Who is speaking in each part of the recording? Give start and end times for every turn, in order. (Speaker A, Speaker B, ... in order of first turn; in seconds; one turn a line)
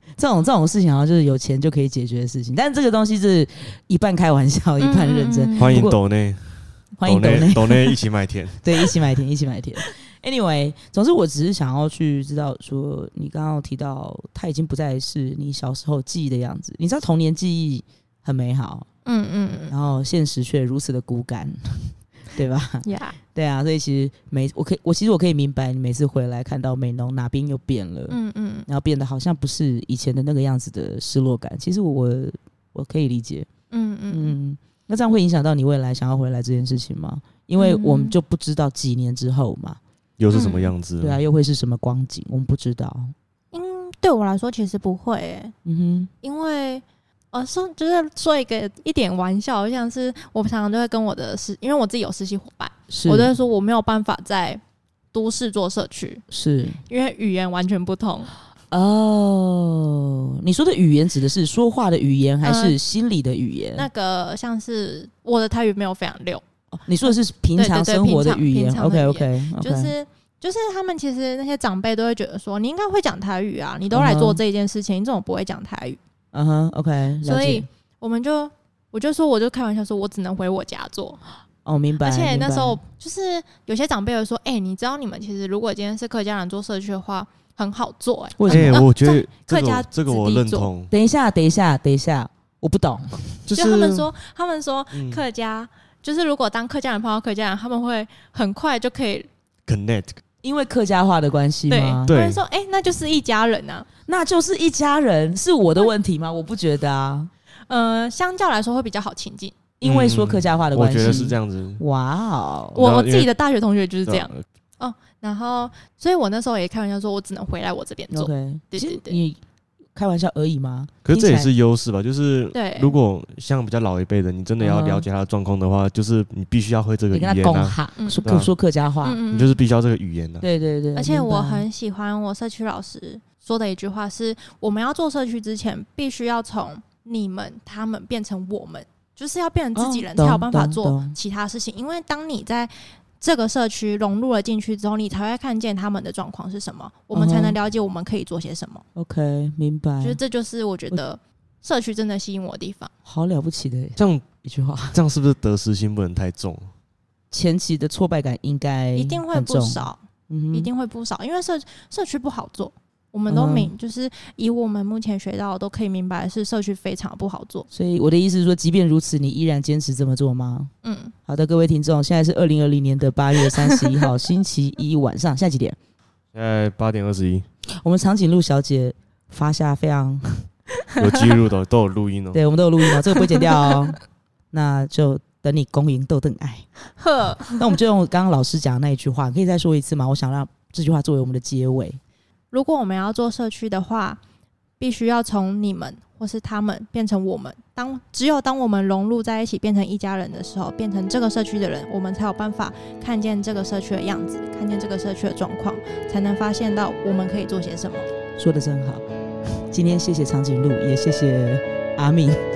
Speaker A: 0.2-6.0
Speaker B: 4.8-5.9
Speaker C: 5.6-8.6
Speaker A: 7.0-8.0
Speaker A: 8.6-18.9
Speaker B: 19.1-19.7
Speaker A: 19.7-33.5
Speaker B: 22.8-23.2
Speaker B: 28.1-28.7
Speaker B: 33.7-34.4
Speaker A: 34.1-39.8
Speaker B: 37.6-38.1
Speaker C: 40.2-41.2
Speaker B: 40.3-40.7
Speaker A: 41.0-43.1
Speaker B: 43.5-45.5
Speaker A: 45.6-46.1
Speaker B: 46.2-54.6
Speaker A: 52.9-53.3
Speaker B: 55.1-56.2
Speaker A: 56.3-56.8
Speaker B: 56.9-58.3
Speaker A: 58.7-63.9
Speaker B: 62.4-62.8
Speaker B: 63.8-66.4
Speaker A: 66.7-69.9
Speaker B: 67.6-76.0
Speaker A: 73.9-74.4
Speaker A: 76.3-77.7
Speaker B: 77.2-81.2
Speaker A: 81.7-82.8
Speaker B: 82.0-90.7
Speaker A: 88.4-88.9
Speaker C: 88.5-90.9
Speaker A: 90.9-93.4
Speaker C: 93.5-94.1
Speaker B: 93.5-99.3
Speaker C: 94.9-95.2
Speaker C: 99.7-100.2
Speaker A: 100.4-102.1
Speaker B: 101.7-103.9
Speaker C: 102.1-102.4
Speaker A: 104.1-107.3
Speaker B: 107.7-109.5
Speaker A: 109.8-112.8
Speaker C: 109.8-111.8
Speaker C: 112.7-113.3
Speaker B: 112.8-119.2
Speaker C: 114.1-114.4
Speaker A: 118.1-119.4
Speaker A: 120.0-121.5
Speaker C: 121.0-128.5
Speaker B: 122.5-123.0
Speaker A: 124.6-125.1
Speaker A: 127.1-129.2
Speaker B: 128.0-128.3
Speaker B: 129.0-129.6
Speaker C: 129.3-130.5
Speaker A: 130.4-131.7
Speaker B: 131.0-148.8
Speaker A: 139.8-141.2
Speaker A: 147.1-147.6
Speaker A: 148.9-150.2
Speaker B: 150.0-152.9
Speaker A: 153.1-155.0
Speaker C: 154.0-154.3
Speaker C: 154.9-156.7
Speaker A: 157.3-160.7
Speaker B: 158.9-167.7
Speaker A: 163.3-163.7
Speaker A: 167.7-170.7
Speaker B: 170.8-171.1
Speaker A: 171.3-175.8
Speaker C: 176.3-177.4
Speaker A: 177.8-180.5
Speaker C: 181.0-182.4
Speaker A: 182.3-184.0
Speaker A: 184.5-186.7
Speaker B: 187.0-187.6
Speaker A: 187.4-192.0
Speaker B: 192.5-194.2
Speaker B: 194.8-208.1
Speaker A: 208.4-209.0
Speaker A: 209.7-212.4